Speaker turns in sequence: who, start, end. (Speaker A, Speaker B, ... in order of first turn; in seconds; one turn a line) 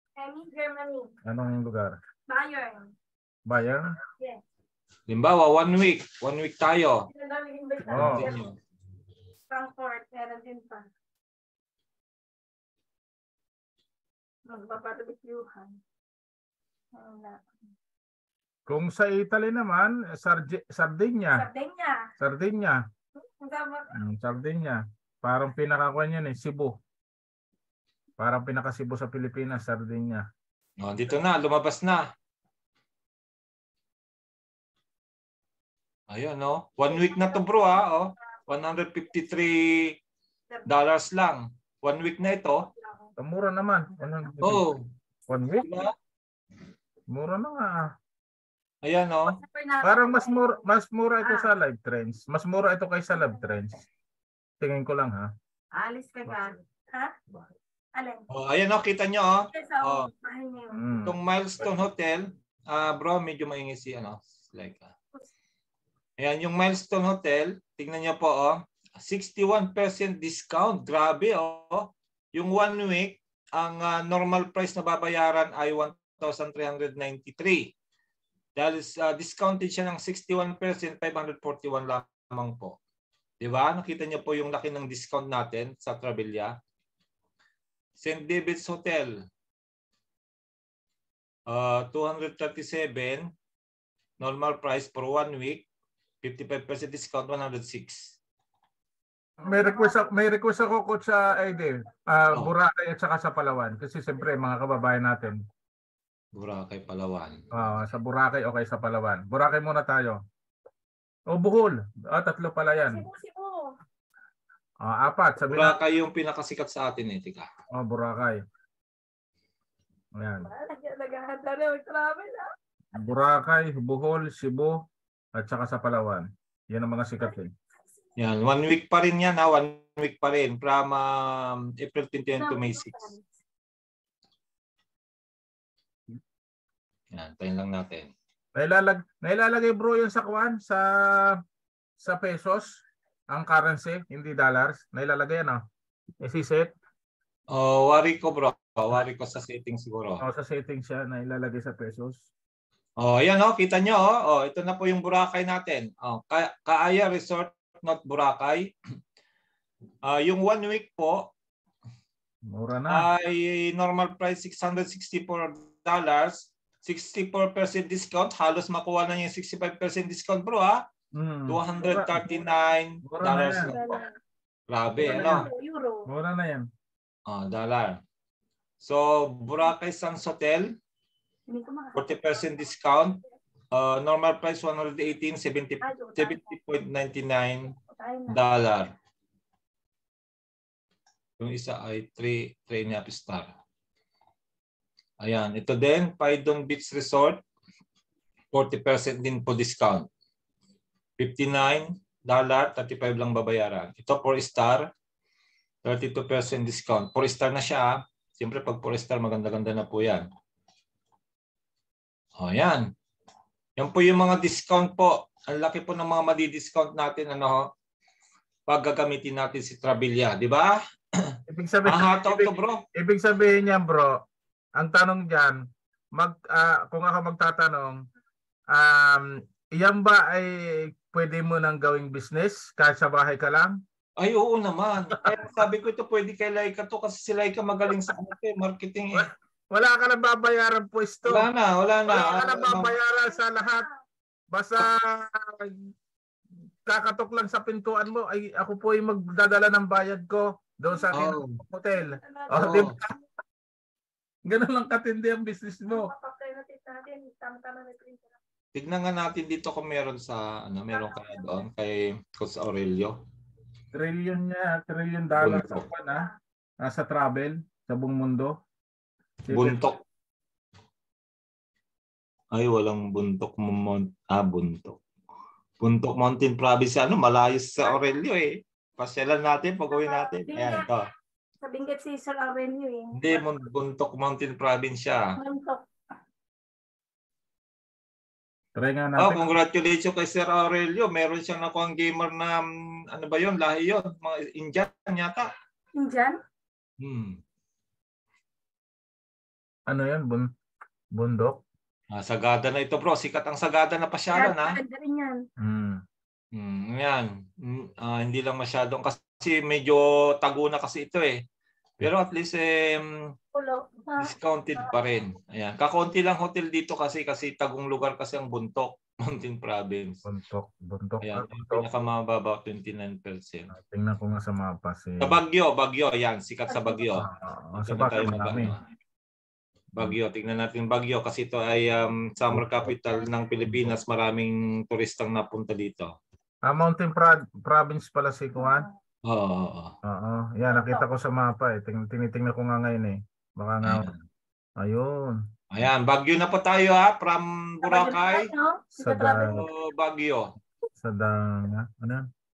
Speaker A: 0.2-1.1
Speaker B: 1.2-2.0
Speaker A: 2.3-3.0
Speaker B: 3.5-4.0
Speaker C: 5.1-7.1
Speaker A: 7.1-8.4
Speaker C: 7.9-8.6
Speaker B: 7.9-8.4
Speaker A: 9.5-10.9
Speaker A: 14.5-15.8
Speaker A: 16.9-17.5
Speaker B: 18.7-21.5
Speaker A: 21.4-22.1
Speaker B: 22.2-22.8
Speaker A: 23.2-23.9
Speaker B: 23.9-26.8
Speaker B: 28.2-30.2
Speaker C: 30.8-32.1
Speaker C: 36.1-40.0
Speaker A: 37.1-37.5
Speaker C: 40.7-42.7
Speaker B: 43.2-44.7
Speaker C: 44.4-44.9
Speaker B: 45.3-45.7
Speaker C: 45.6-45.9
Speaker B: 47.1-47.9
Speaker C: 48.8-49.4
Speaker A: 49.3-50.5
Speaker B: 49.8-53.9
Speaker B: 54.6-55.3
Speaker A: 55.7-57.1
Speaker A: 57.9-58.3
Speaker C: 58.3-60.1
Speaker A: 59.5-60.8
Speaker B: 60.7-61.2
Speaker C: 61.1-64.9
Speaker C: 66.2-77.7
Speaker C: 78.6-82.8
Speaker C: 83.4-86.5
Speaker C: 88.0-89.2
Speaker C: 91.5-93.3
Speaker C: 94.2-95.7
Speaker C: 96.2-98.2
Speaker B: 99.4-105.4
Speaker C: 106.3-107.7
Speaker B: 107.5-110.2
Speaker B: 111.3-113.0
Speaker A: 112.9-113.7
Speaker B: 114.8-115.8
Speaker C: 115.5-117.5
Speaker B: 117.7-118.4
Speaker B: 120.2-120.5
Speaker A: 120.4-122.5
Speaker B: 123.0-124.8
Speaker B: 125.4-127.5
Speaker C: 128.2-133.1
Speaker A: 132.4-133.2
Speaker C: 137.1-138.1
Speaker B: 138.6-141.4
Speaker B: 142.0-145.6
Speaker B: 146.2-146.7
Speaker C: 147.5-150.2
Speaker B: 150.2-152.3
Speaker C: 153.0-158.7
Speaker C: 160.1-161.3
Speaker B: 162.5-163.1
Speaker C: 162.9-170.8
Speaker B: 171.2-172.2
Speaker C: 171.5-174.0
Speaker B: 173.0-173.7
Speaker A: 173.4-174.1
Speaker C: 174.7-175.5
Speaker A: 175.0-176.1
Speaker B: 175.0-175.5
Speaker B: 176.1-176.7
Speaker C: 177.3-178.0
Speaker C: 178.8-180.7
Speaker A: 181.5-182.4
Speaker C: 181.9-187.8
Speaker A: 185.8-186.6
Speaker A: 187.9-188.4
Speaker C: 188.3-188.9
Speaker C: 191.4-193.5
Speaker C: 195.2-197.4
Speaker C: 198.5-200.1
Speaker C: 201.2-204.9
Speaker C: 205.8-210.3
Speaker C: 212.4-212.9
Speaker C: 213.8-217.7
Speaker C: 218.7-222.8
Speaker B: 221.5-224.2
Speaker B: 224.8-225.6
Speaker B: 226.2-228.0
Speaker B: 228.7-233.8
Speaker C: 234.2-239.3
Speaker B: 239.2-241.5
Speaker C: 241.3-242.9
Speaker B: 242.1-243.9
Speaker A: 243.2-243.9
Speaker B: 244.5-245.9
Speaker B: 246.9-253.1
Speaker C: 251.1-251.6
Speaker A: 252.2-252.9
Speaker C: 252.6-253.0
Speaker B: 254.5-256.1
Speaker A: 255.9-258.4
Speaker C: 258.8-263.2
Speaker A: 260.9-261.6
Speaker B: 263.9-266.3
Speaker C: 265.4-265.9
Speaker B: 266.8-268.5
Speaker B: 269.5-269.8
Speaker C: 269.5-270.0
Speaker C: 272.5-275.0
Speaker C: 275.8-281.1
Speaker A: 279.9-280.9
Speaker A: 281.6-283.4
Speaker C: 283.1-285.3
Speaker A: 285.4-285.8
Speaker B: 288.8-289.5
Speaker C: 289.2-295.5
Speaker A: 296.0-296.4
Speaker C: 297.0-297.4
Speaker B: 299.9-300.5
Speaker B: 301.1-301.6
Speaker C: 302.1-304.8
Speaker A: 304.3-305.4
Speaker B: 305.6-306.0
Speaker C: 306.5-311.4
Speaker C: 312.0-313.3
Speaker A: 313.5-314.9
Speaker C: 314.2-320.2
Speaker B: 320.2-321.9
Speaker C: 321.2-323.7
Speaker B: 323.7-325.4
Speaker C: 325.2-327.3
Speaker A: 326.7-327.1
Speaker B: 327.2-328.8
Speaker C: 327.8-328.8
Speaker C: 330.0-336.1
Speaker B: 332.5-332.9
Speaker B: 336.7-338.9
Speaker C: 339.3-339.9
Speaker B: 340.0-344.1
Speaker A: 340.7-341.1
Speaker C: 343.8-344.2
Speaker B: 344.8-345.4
Speaker C: 345.7-348.5
Speaker A: 347.8-349.6
Speaker B: 349.0-349.7
Speaker C: 349.5-350.5
Speaker B: 351.0-352.2